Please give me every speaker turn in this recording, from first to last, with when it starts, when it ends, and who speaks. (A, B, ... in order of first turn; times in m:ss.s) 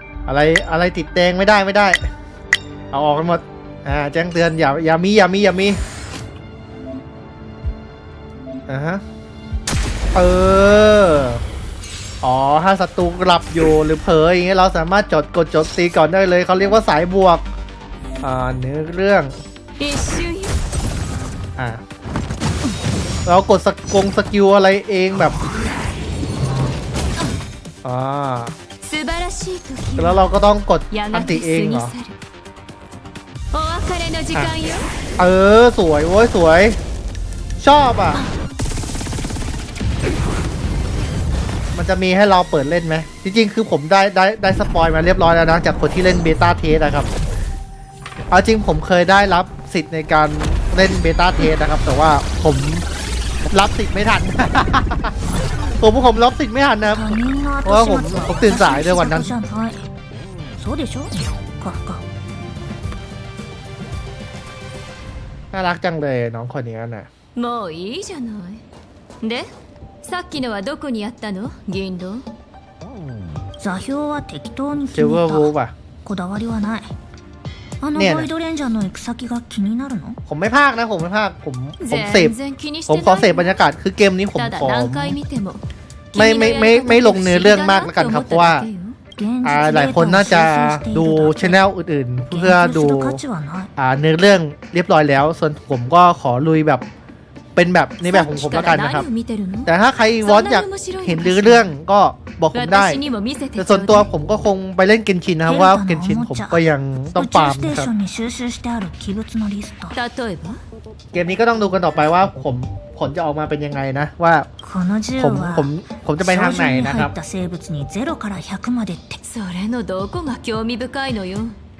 0:00.3-0:02.1 A
0:02.9-0:05.8 A
0:08.7-0:09.0 A
0:10.1-0:11.4 A
0:12.2-0:17.4 A
0:18.2-0:19.3 A
0:19.8-0:20.5 B
0:21.6-0:21.8 A
0:23.2-0:25.4 A
0:27.8-0:28.5 A
0:28.8-0:30.3 B
0:30.0-0:31.9 A
0:30.9-0:32.2 B
0:33.5-0:34.9 B
0:35.2-0:36.8 A
0:37.6-0:38.2 A
0:41.7-0:47.1 A
0:48.3-0:52.8 A
0:53.5-0:55.1 A
0:55.8-0:57.1 A
0:56.9-0:59.9 C
0:57.6-0:59.3 A
1:00.6-1:02.0 C
1:05.5-1:07.1 A
1:07.4-1:08.6 B
1:09.2-1:09.5 B
1:10.0-1:12.2 B
1:13.6-1:15.5 C
1:14.9-1:15.7 A
1:16.0-1:16.9 C
1:17.8-1:20.2 C
1:17.9-1:18.3 A
1:20.3-1:22.3 A
1:21.8-1:23.6 B
1:22.9-1:25.2 A
1:24.3-1:25.6 B
1:26.1-1:29.0 B
1:26.1-1:28.6 A
1:29.2-1:31.6 C
1:29.4-1:33.2 A
1:32.3-1:33.7 C
1:33.8-1:36.8 A
1:37.6-1:39.0 A
1:38.0-1:39.7 B
1:39.6-1:43.0 A
1:40.2-1:41.7 B
1:42.5-1:44.1 B
1:43.6-1:47.9 A
1:45.4-1:46.6 C
1:47.2-1:50.0 C
1:49.9-1:50.6 B
1:51.1-1:54.5 A
1:54.6-1:59.2 C
1:55.2-1:57.1 A
1:59.2-2:01.6 B